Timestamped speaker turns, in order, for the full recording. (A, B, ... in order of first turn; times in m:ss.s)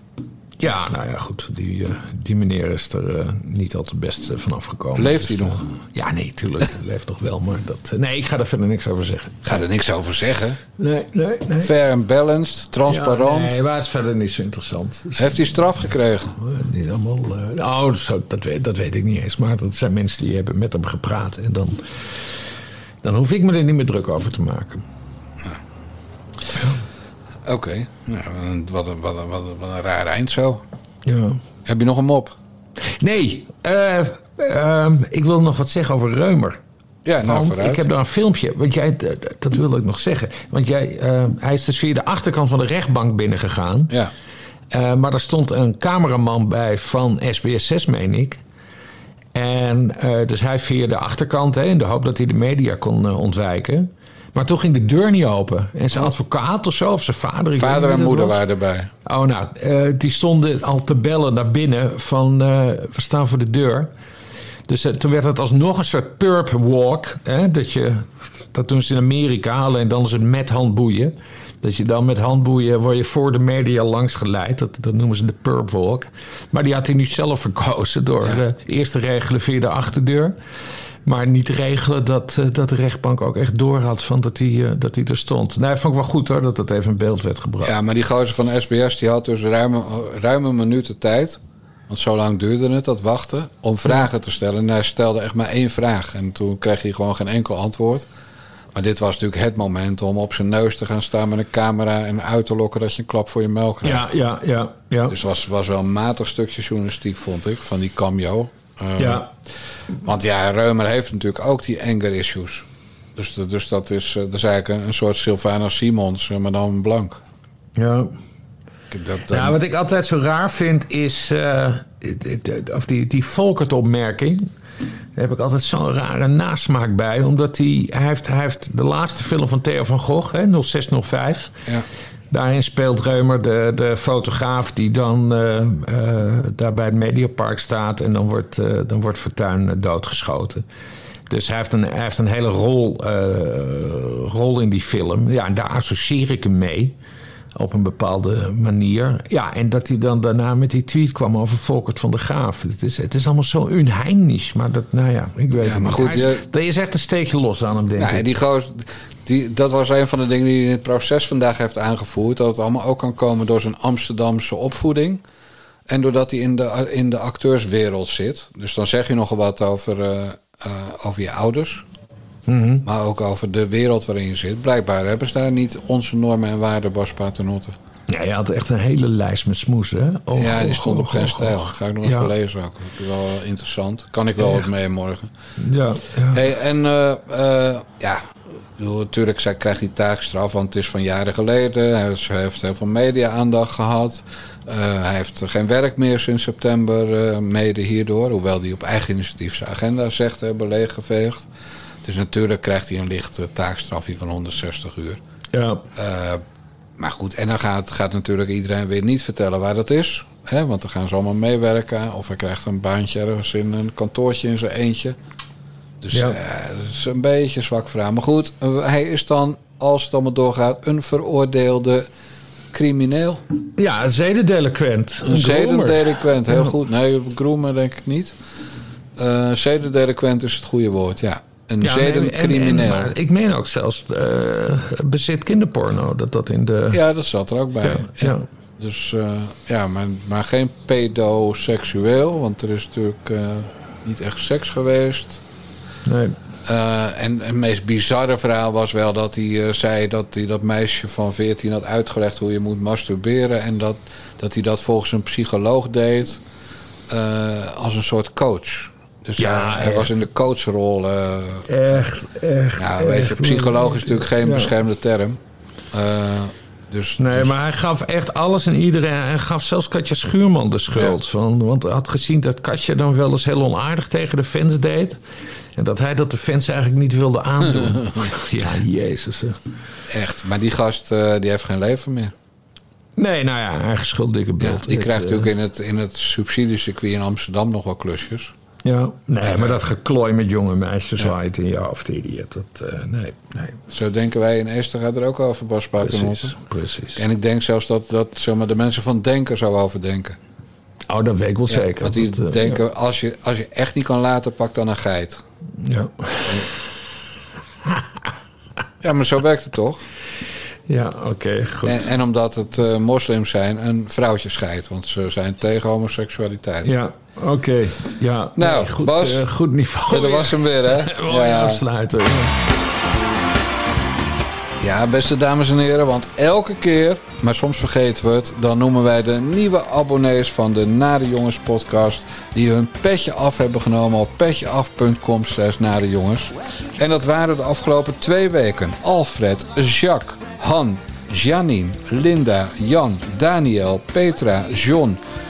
0:00.6-0:09.4 A
0:05.0-0:05.7 B
0:09.4-0:10.6 B
0:10.8-0:11.7 A
0:11.6-0:13.6 B
0:12.9-0:15.5 A
0:15.2-0:16.4 B
0:16.4-0:21.9 A
0:23.0-0:24.8 A
0:26.5-0:26.8 A
0:27.4-0:30.6 B
0:31.0-0:31.4 A
0:31.6-0:32.4 B
0:33.0-0:36.6 A
0:37.0-0:37.9 B
0:37.2-0:43.9 A
0:44.7-0:48.4 A
0:49.3-0:58.4 A
0:57.6-0:58.9 B
0:59.1-1:03.9 A
1:04.7-1:20.4 A
1:21.0-1:27.7 A
1:27.6-1:38.1 B
1:38.7-1:44.1 B
1:43.8-1:45.2 A
1:45.1-1:49.3 B
1:49.0-1:49.3 A
1:50.0-1:57.2 B
1:57.8-1:58.1 A
1:58.9-1:59.6 B
1:59.3-2:04.5 A
2:05.2-2:11.6 A
2:12.3-2:20.6 A
2:21.3-2:27.0 A
2:27.6-2:38.2 A
2:35.6-2:36.4 B
2:38.0-2:45.2 B
2:45.9-2:51.8 B
2:52.5-2:52.8 A
2:52.8-2:57.8 B
2:58.1-3:02.3 A
3:00.3-3:05.3 B
3:05.6-3:06.4 A
3:06.3-3:21.5 B
3:22.0-3:25.2 B
3:25.5-3:25.8 A
3:26.0-3:26.4 B
3:27.0-3:35.2 B
3:36.0-3:42.1 B
3:36.1-3:36.4 A
3:42.7-3:43.4 B
3:43.8-3:46.1 A
3:45.2-3:48.4 B
3:49.2-3:53.2 B
3:51.8-3:57.0 A
3:56.9-4:05.4 B
3:57.8-3:58.4 A
4:06.1-4:06.4 A
4:06.6-4:16.4 B
4:17.1-4:22.1 B
4:19.4-4:20.2 A
4:21.7-4:24.7 A
4:22.8-4:25.4 B
4:25.9-4:27.5 B
4:27.2-4:35.2 A
4:35.8-4:39.6 A
4:40.1-4:42.4 B
4:43.2-4:45.5 A
4:44.6-4:48.5 B
4:48.8-4:53.8 A
4:49.4-4:49.8 B
4:53.9-4:56.6 B
4:56.0-4:57.2 A
4:57.2-5:00.4 B
5:01.1-5:02.8 A
5:01.7-5:05.4 B
5:05.8-5:06.8 A
5:09.0-5:10.0 B
5:10.9-5:12.0 A
5:11.8-5:17.0 B
5:16.8-5:22.6 A
5:18.6-5:19.4 B
5:20.1-5:21.8 B
5:24.8-5:45.2 B